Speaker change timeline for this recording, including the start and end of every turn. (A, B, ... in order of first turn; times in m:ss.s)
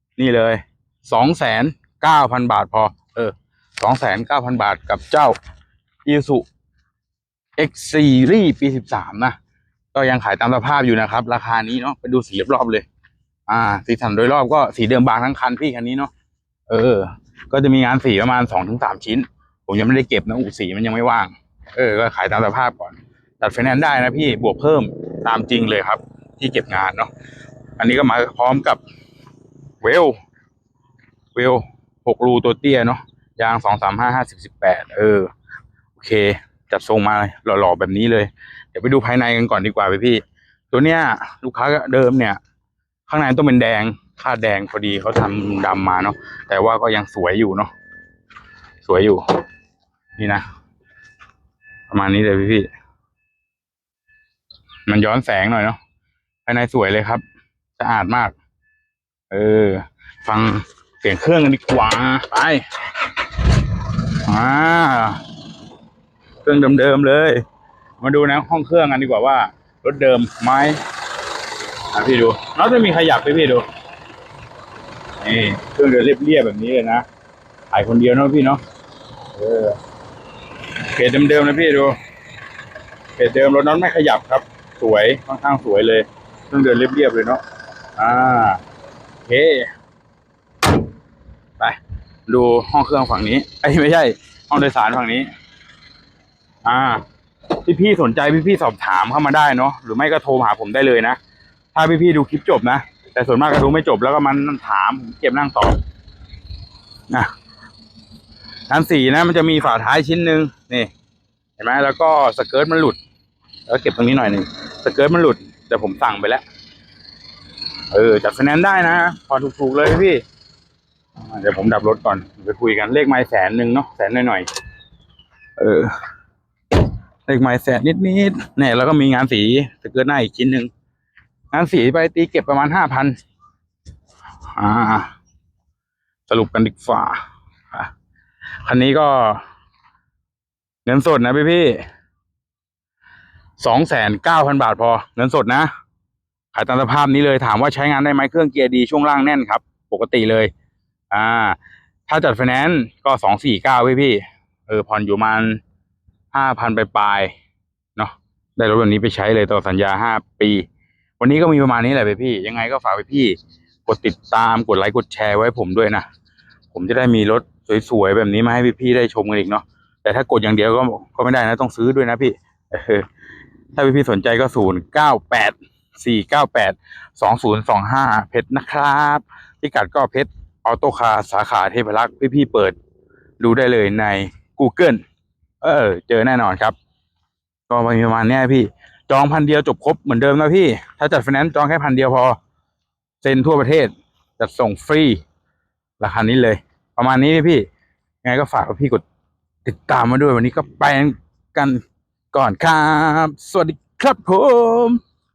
0:00.2-0:05.4 A
0:06.0-0:06.5 A
0:07.6-0:09.4 A
0:09.9-0:12.8 A
0:13.5-0:16.1 A
0:16.7-0:27.1 A
0:27.8-0:28.8 A
0:29.8-0:30.2 A
0:31.4-0:35.3 A
0:36.0-0:42.4 A
0:43.1-0:47.7 A
0:48.8-0:49.2 A
0:50.2-0:50.4 A
0:51.9-0:52.7 A
0:54.9-0:55.8 A
0:56.5-0:57.2 A
0:57.8-0:58.4 A
0:59.3-1:02.6 A
1:04.2-1:05.2 A
1:06.4-1:07.4 A
1:08.0-1:10.8 A
1:11.9-1:13.7 A
1:15.2-1:17.0 A
1:17.7-1:18.6 A
1:19.4-1:19.8 A
1:20.9-1:22.0 A
1:23.2-1:27.4 A
1:28.0-1:28.6 A
1:29.3-1:29.7 A
1:31.6-1:35.3 A
1:36.6-1:37.0 A
1:37.6-1:41.2 A
1:41.7-1:45.8 A
1:48.7-1:50.9 A
1:51.6-1:53.0 A
1:53.7-1:56.4 A
1:57.9-2:00.2 A
2:01.3-2:04.5 A
2:05.6-2:06.0 A
2:07.3-2:10.7 A
2:11.5-2:13.2 A
2:14.6-2:15.1 A
2:16.3-2:17.9 A
2:18.6-2:19.4 A
2:20.9-2:21.8 A
2:23.6-2:25.7 A
2:26.5-2:30.5 A
2:31.1-2:35.6 A
2:36.3-2:37.3 A
2:38.0-2:40.7 A
2:41.2-2:46.1 A
2:46.7-2:53.0 A
2:53.8-3:02.8 A
3:03.4-3:05.0 A
3:05.6-3:06.8 A
3:07.7-3:12.4 A
3:13.2-3:15.2 A
3:16.0-3:17.7 A
3:18.2-3:19.0 A
3:19.6-3:25.0 A